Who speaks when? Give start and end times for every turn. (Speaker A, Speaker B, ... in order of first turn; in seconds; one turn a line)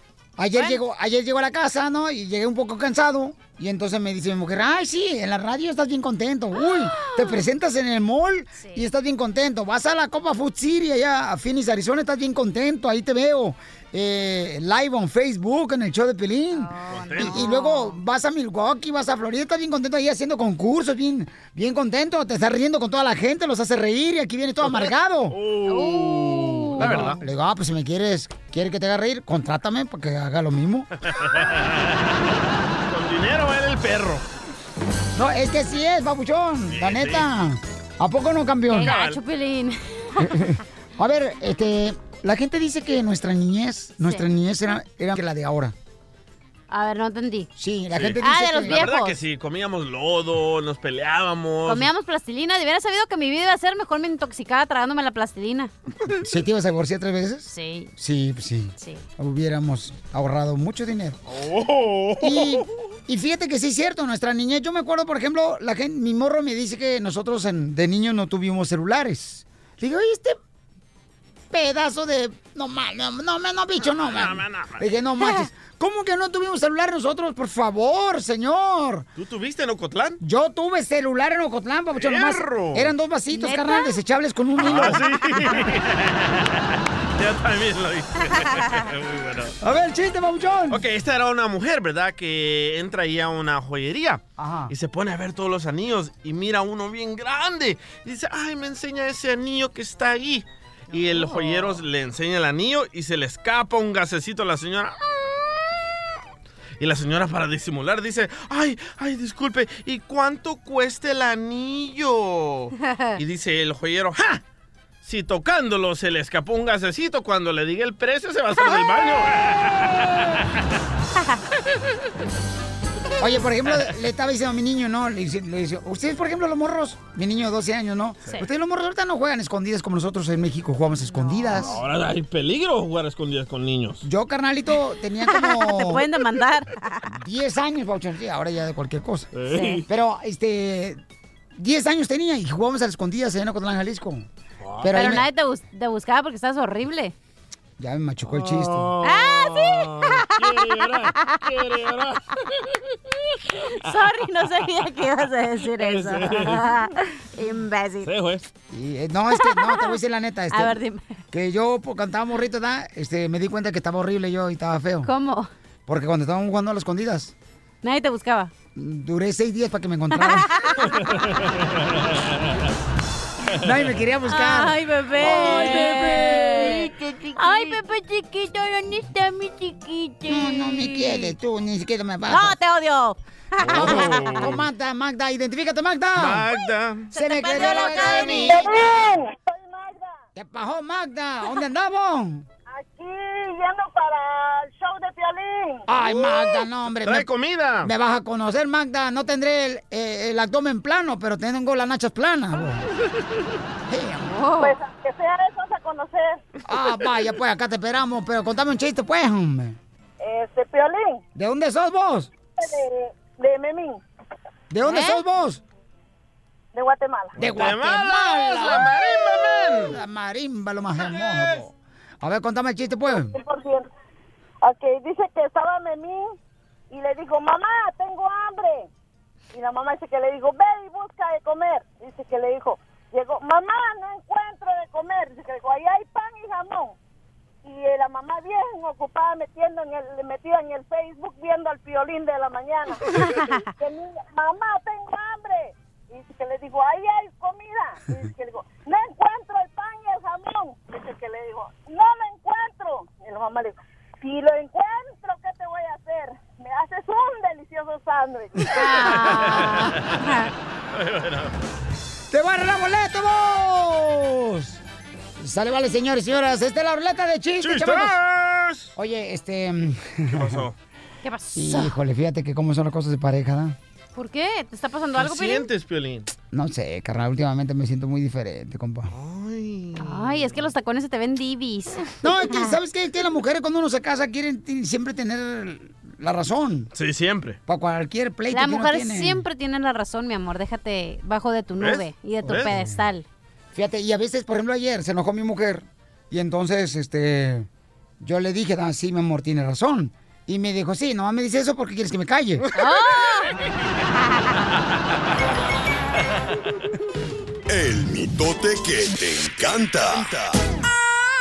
Speaker A: 0.4-25.4
Speaker B: 6.5-7.4
Speaker B: 8.6-8.8
Speaker B: 16.5-18.0
Speaker C: 16.9-17.4
Speaker C: 24.6-27.2
Speaker B: 25.7-27.1
Speaker A: 26.8-30.9
Speaker C: 31.1-32.1
Speaker C: 32.9-34.2
Speaker A: 35.1-39.0
Speaker C: 36.7-37.2
Speaker B: 38.7-40.3
Speaker C: 38.9-39.2
Speaker A: 40.2-45.7
Speaker B: 46.7-47.5
Speaker A: 47.6-48.9
Speaker C: 47.9-51.9
Speaker B: 48.2-49.2
Speaker B: 51.6-55.7
Speaker A: 56.2-61.2
Speaker B: 57.5-57.9
Speaker C: 61.3-62.6
Speaker A: 62.2-70.4
Speaker A: 71.5-79.0
Speaker C: 73.9-74.8
Speaker C: 79.2-80.2
Speaker A: 80.2-85.0
Speaker C: 82.0-82.9
Speaker B: 83.3-83.9
Speaker C: 84.6-89.5
Speaker A: 89.6-90.8
Speaker C: 90.7-105.3
Speaker A: 94.4-94.7
Speaker C: 106.8-114.4
Speaker B: 112.8-113.2
Speaker C: 115.0-120.4
Speaker A: 123.2-131.8
Speaker C: 131.6-134.0
Speaker A: 134.0-136.1
Speaker B: 135.3-137.1
Speaker A: 137.1-141.0
Speaker C: 139.3-139.8
Speaker B: 139.4-139.8
Speaker A: 141.6-144.3
Speaker C: 144.6-145.2
Speaker A: 144.8-145.3
Speaker B: 144.9-147.1
Speaker A: 147.8-148.9
Speaker C: 148.3-152.4
Speaker B: 149.0-151.5
Speaker B: 153.8-158.1
Speaker C: 155.8-156.7
Speaker C: 158.0-158.4
Speaker A: 158.7-160.8
Speaker B: 159.3-160.0
Speaker B: 160.5-161.2
Speaker A: 161.3-165.1
Speaker B: 165.0-165.5
Speaker A: 165.9-167.3
Speaker B: 167.8-168.5
Speaker A: 168.7-170.5
Speaker B: 170.1-170.7
Speaker C: 170.9-172.4
Speaker A: 173.6-176.9
Speaker B: 174.2-181.3
Speaker A: 180.3-182.6
Speaker B: 182.3-184.5
Speaker C: 183.6-184.6
Speaker A: 183.7-186.4
Speaker C: 186.2-187.1
Speaker B: 187.1-188.6
Speaker A: 187.1-188.8
Speaker C: 188.0-188.4
Speaker D: 188.5-190.2
Speaker A: 190.3-192.4
Speaker D: 192.7-195.8
Speaker A: 195.9-197.3
Speaker C: 196.9-197.9
Speaker A: 197.8-202.8
Speaker A: 203.9-204.4
Speaker B: 204.2-204.8
Speaker D: 204.6-206.4
Speaker A: 206.7-209.8
Speaker D: 210.2-211.2
Speaker A: 211.3-212.3
Speaker D: 212.6-214.0
Speaker A: 214.7-215.6
Speaker B: 214.8-215.2
Speaker D: 216.7-217.3
Speaker A: 217.4-218.9
Speaker C: 217.4-220.0
Speaker A: 219.8-223.3
Speaker D: 223.2-223.9
Speaker D: 224.6-226.3
Speaker D: 226.9-228.9
Speaker D: 229.5-236.9
Speaker D: 237.6-243.0
Speaker B: 243.2-243.6
Speaker D: 243.8-258.6
Speaker B: 258.7-260.5
Speaker C: 259.2-260.2
Speaker C: 260.9-261.5
Speaker A: 262.3-264.8
Speaker A: 265.4-268.1
Speaker C: 267.6-268.9
Speaker A: 268.9-270.6
Speaker C: 270.3-270.8
Speaker B: 271.2-271.9
Speaker A: 271.5-273.8
Speaker B: 274.1-275.7
Speaker C: 275.1-276.3
Speaker A: 276.5-279.1
Speaker C: 279.1-280.5
Speaker B: 280.0-282.8
Speaker A: 282.2-286.9
Speaker C: 286.9-287.6
Speaker A: 287.7-289.4
Speaker B: 288.5-293.2
Speaker C: 291.8-292.7
Speaker A: 292.4-293.0
Speaker A: 293.7-297.7
Speaker A: 298.2-302.6
Speaker B: 302.7-303.5
Speaker E: 307.7-310.6